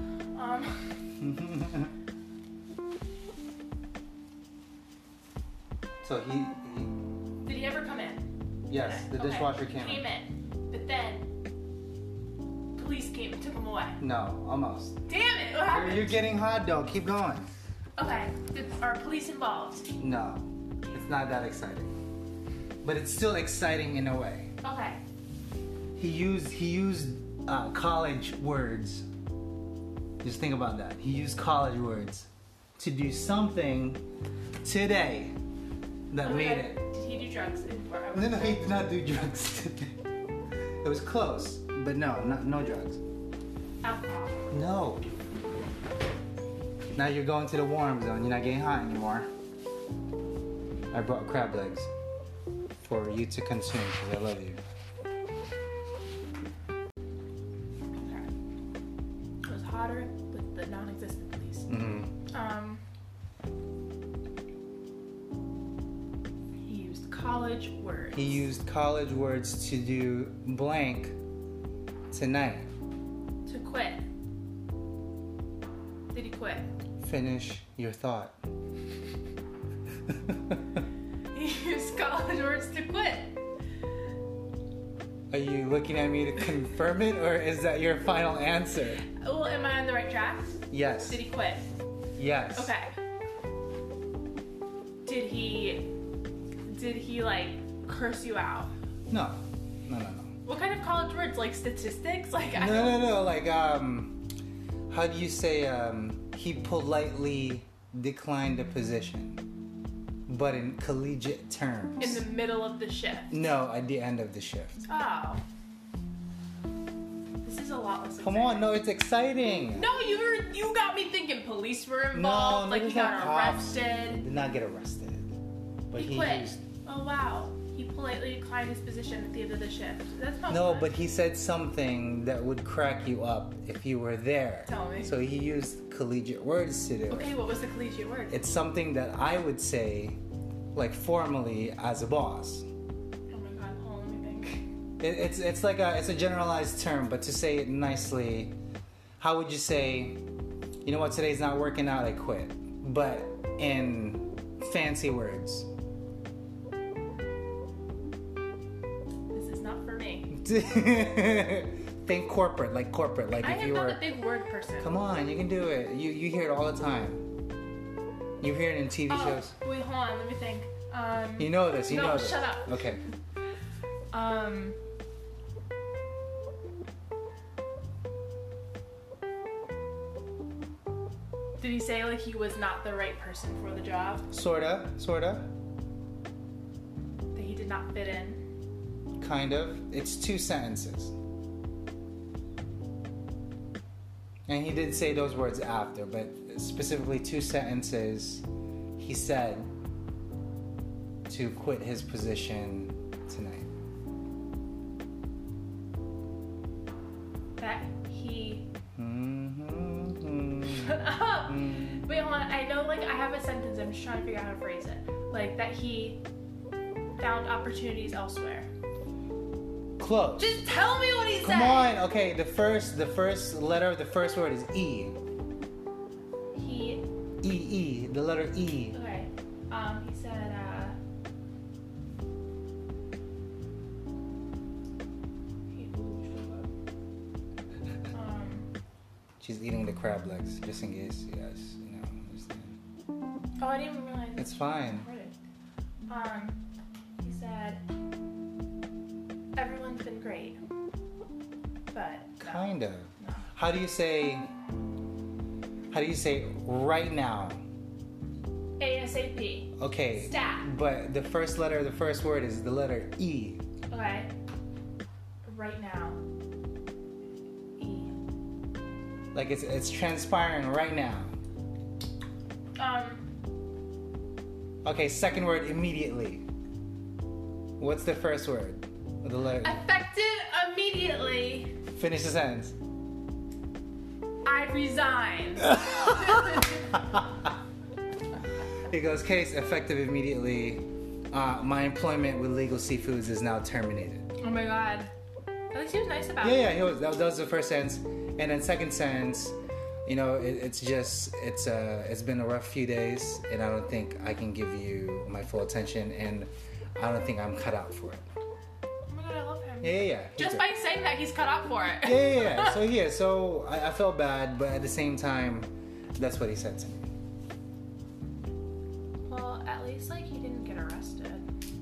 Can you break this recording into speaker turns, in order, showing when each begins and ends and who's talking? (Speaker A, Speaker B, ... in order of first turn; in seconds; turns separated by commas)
Speaker A: 0.3-0.9, Speaker B: 1.2-1.9, Speaker B: 6.0-6.9, Speaker A: 7.4-11.2, Speaker B: 8.7-10.0, Speaker A: 12.7-14.0, Speaker B: 14.0-15.0, Speaker A: 15.1-16.1, Speaker B: 15.7-17.5, Speaker A: 18.0-19.9, Speaker B: 20.0-21.9, Speaker B: 22.8-24.5, Speaker A: 24.6-25.0, Speaker B: 25.9-29.1, Speaker B: 30.2-34.0, Speaker B: 34.6-35.3, Speaker B: 36.1-36.8, Speaker A: 36.2-38.7, Speaker B: 38.1-39.9, Speaker B: 40.8-43.0, Speaker A: 43.8-44.5, Speaker B: 44.5-45.1, Speaker B: 46.9-49.3, Speaker B: 50.9-51.9, Speaker B: 52.8-54.6, Speaker A: 58.0-58.3, Speaker A: 59.5-61.7, Speaker B: 61.7-62.1, Speaker A: 62.3-62.8, Speaker A: 66.6-68.5, Speaker B: 68.1-71.1, Speaker B: 72.1-72.7, Speaker A: 73.5-74.0, Speaker A: 76.1-76.7, Speaker B: 77.0-78.4, Speaker B: 80.1-80.6, Speaker A: 81.3-83.3, Speaker B: 85.3-89.0, Speaker A: 89.1-91.7, Speaker B: 90.7-91.2, Speaker B: 92.2-92.7, Speaker A: 92.5-92.9, Speaker A: 95.0-95.9, Speaker A: 96.7-98.7, Speaker B: 99.1-100.3, Speaker A: 100.4-103.1, Speaker B: 102.5-104.2, Speaker B: 104.9-109.4, Speaker B: 110.3-112.2, Speaker A: 112.0-113.3, Speaker B: 113.3-114.8, Speaker A: 114.9-115.4, Speaker A: 117.4-118.7, Speaker B: 118.2-119.9, Speaker A: 119.7-124.2, Speaker B: 122.1-125.3, Speaker B: 125.9-126.6, Speaker A: 125.9-130.9, Speaker B: 130.5-137.3, Speaker A: 134.7-135.2, Speaker A: 137.1-138.4, Speaker B: 138.3-140.2, Speaker B: 140.7-142.7, Speaker A: 143.3-144.6, Speaker B: 145.0-148.5, Speaker B: 149.2-150.2, Speaker B: 150.8-155.7, Speaker A: 159.3-160.3, Speaker B: 160.3-164.1, Speaker A: 163.4-164.9, Speaker B: 164.8-167.2, Speaker B: 168.4-169.5, Speaker A: 169.1-172.8, Speaker B: 171.4-173.0, Speaker A: 174.1-174.8, Speaker A: 181.6-184.2, Speaker B: 184.3-185.5, Speaker A: 187.3-188.4, Speaker B: 189.2-191.1, Speaker B: 194.5-199.7, Speaker B: 201.3-203.7, Speaker A: 207.6-208.7, Speaker B: 208.9-212.1, Speaker A: 210.7-216.2, Speaker A: 217.2-218.7, Speaker B: 220.0-220.6, Speaker A: 220.4-222.0, Speaker B: 221.4-225.2, Speaker A: 226.5-227.0, Speaker B: 227.4-228.9, Speaker A: 228.9-230.9, Speaker A: 235.7-236.7, Speaker A: 238.1-238.7, Speaker B: 239.4-242.8, Speaker A: 243.6-245.3, Speaker B: 244.4-245.1, Speaker A: 246.1-246.6, Speaker A: 247.2-247.8, Speaker A: 249.6-250.6, Speaker A: 251.9-252.7, Speaker B: 252.4-254.5, Speaker B: 255.9-257.6, Speaker A: 258.8-260.7, Speaker B: 259.8-263.6, Speaker A: 263.9-264.3, Speaker A: 265.4-266.2, Speaker A: 267.8-268.1, Speaker B: 269.3-271.3, Speaker A: 272.8-273.3, Speaker B: 274.8-276.4, Speaker B: 277.8-279.8, Speaker A: 279.6-281.7, Speaker B: 281.9-282.7, Speaker A: 284.4-287.0, Speaker B: 288.9-294.2, Speaker A: 294.4-295.1, Speaker A: 295.7-296.8, Speaker B: 296.4-308.2, Speaker A: 309.1-312.8, Speaker B: 309.8-310.7, Speaker B: 312.0-317.1, Speaker A: 319.2-321.4